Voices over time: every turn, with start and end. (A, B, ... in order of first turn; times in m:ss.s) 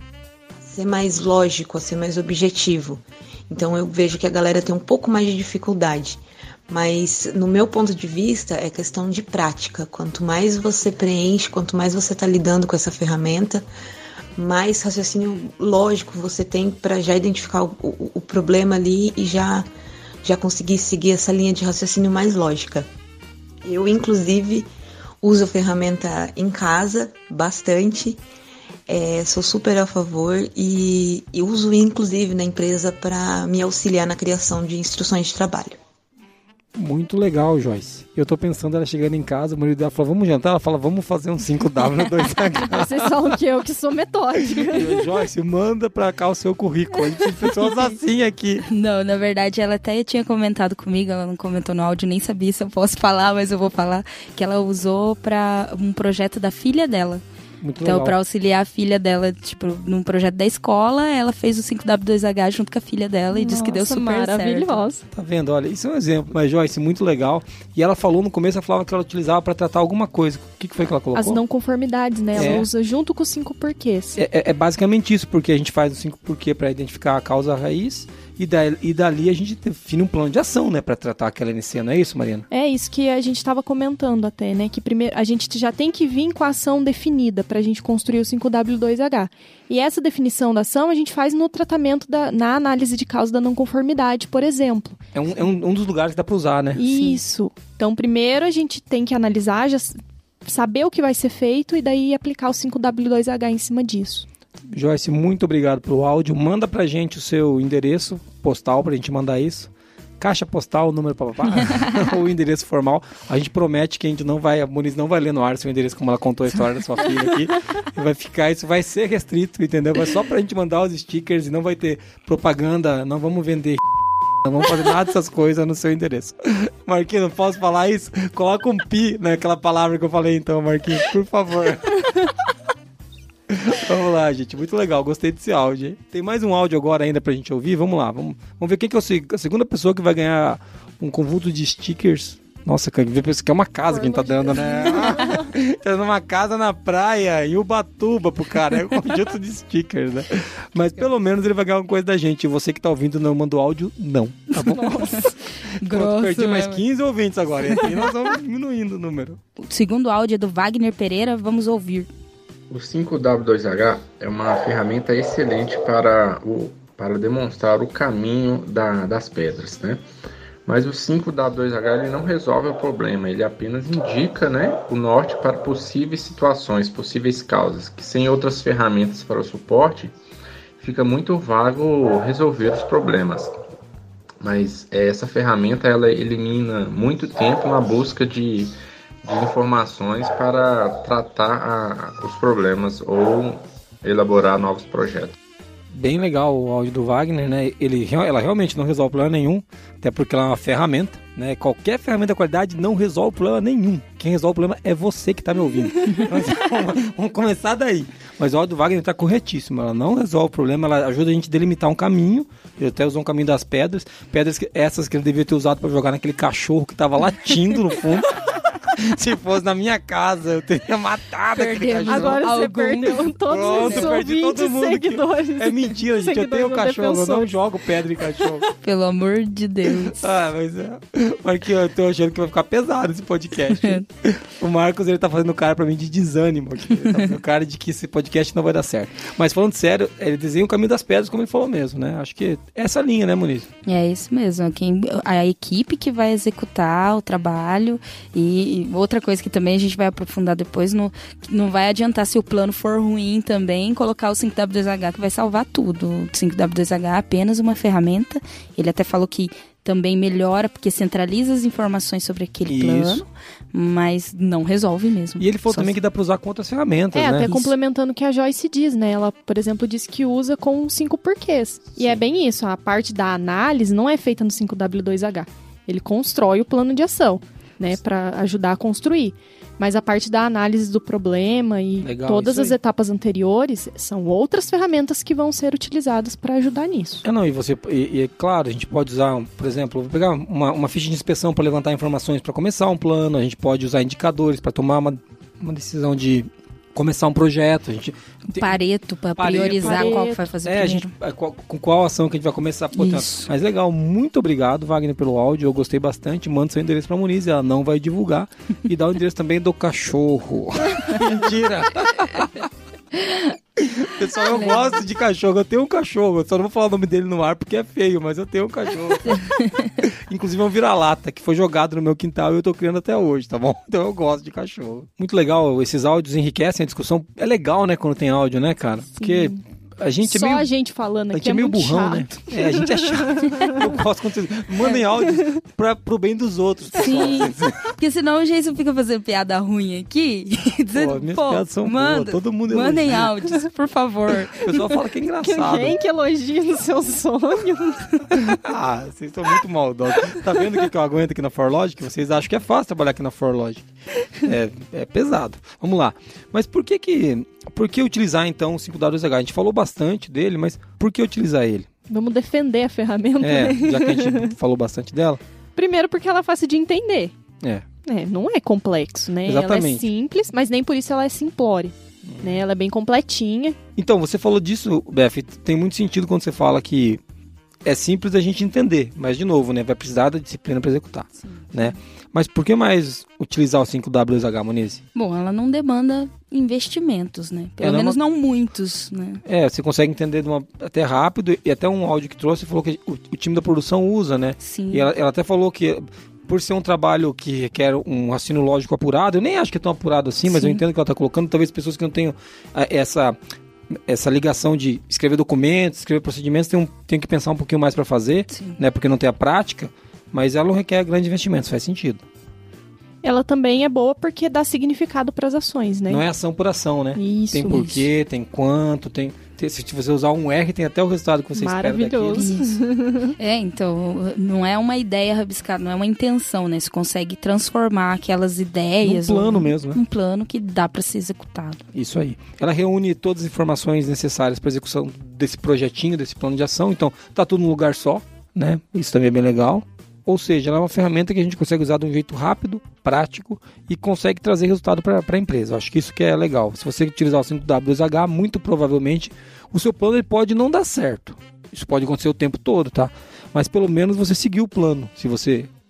0:00.6-0:13.6 A
0:14.4-0:19.7 A
0:20.2-0:22.9 A
0:23.6-0:24.7 A
0:25.2-0:28.2 A
0:28.9-0:35.8 A
0:36.8-0:43.1 B
0:42.7-0:45.0 C
0:44.6-0:48.7 B
0:48.7-0:57.2 D
0:57.6-0:58.2 B
0:57.8-1:04.8 D
1:03.3-1:05.0 C
1:05.1-1:11.4 B
1:11.2-1:14.2 C
1:12.4-1:12.7 B
1:14.2-1:22.5 B
1:22.5-1:35.0 C
1:35.1-1:36.9 B
1:36.8-1:44.3 C
1:44.7-2:03.8 B
2:04.4-2:12.0 B
2:13.5-2:35.0 B
2:23.9-2:25.5 C
2:34.7-2:35.4 C
2:34.7-2:36.8 D
2:35.8-2:39.4 B
2:37.7-2:38.1 D
2:39.6-2:42.1 D
2:42.7-2:50.0 E
2:50.7-3:00.2 E
3:00.8-3:03.6 E
3:04.4-3:15.4 E
3:15.9-3:42.6 B
3:41.5-3:44.2 D
3:42.1-3:47.5 C
3:43.4-3:48.6 B
3:48.8-3:50.2 D
3:50.1-4:03.7 B
4:03.9-4:26.0 D
4:22.7-4:23.2 B
4:25.4-4:27.5 B
4:27.1-4:47.2 C
4:27.4-4:27.7 D
4:42.0-4:42.8 B
4:47.2-4:58.8 B
4:58.6-5:01.1 D
4:59.4-5:12.7 B
4:59.5-5:00.4 C
5:03.0-5:03.5 D
5:13.1-5:13.6 D
5:13.8-5:19.4 B
5:14.5-5:14.9 D
5:19.2-5:20.0 D
5:20.0-5:30.7 B
5:29.2-5:29.6 C
5:30.2-5:33.8 C
5:31.3-5:37.8 B
5:37.0-5:44.8 D
5:40.9-5:43.3 B
5:44.6-5:46.0 B
5:45.4-5:48.4 C
5:48.4-6:01.9 B
6:02.1-6:04.5 C
6:03.4-6:05.4 B
6:05.8-6:07.3 C
6:08.0-6:13.8 C
6:09.4-6:10.1 B
6:12.2-6:12.6 B
6:14.0-6:17.2 B
6:17.9-6:25.0 B
6:25.2-6:29.4 D
6:27.8-6:28.2 B
6:29.4-6:43.4 B
6:34.6-6:35.1 D
6:40.5-6:40.8 D
6:44.1-6:52.2 B
6:48.5-6:48.8 D
6:53.2-6:56.2 C
6:56.1-7:02.5 B
6:57.2-6:57.9 C
6:57.7-6:58.0 D
7:01.6-7:03.4 C
7:02.4-7:02.8 D
7:03.4-7:11.8 D
7:09.0-7:10.0 B
7:11.9-7:35.7 B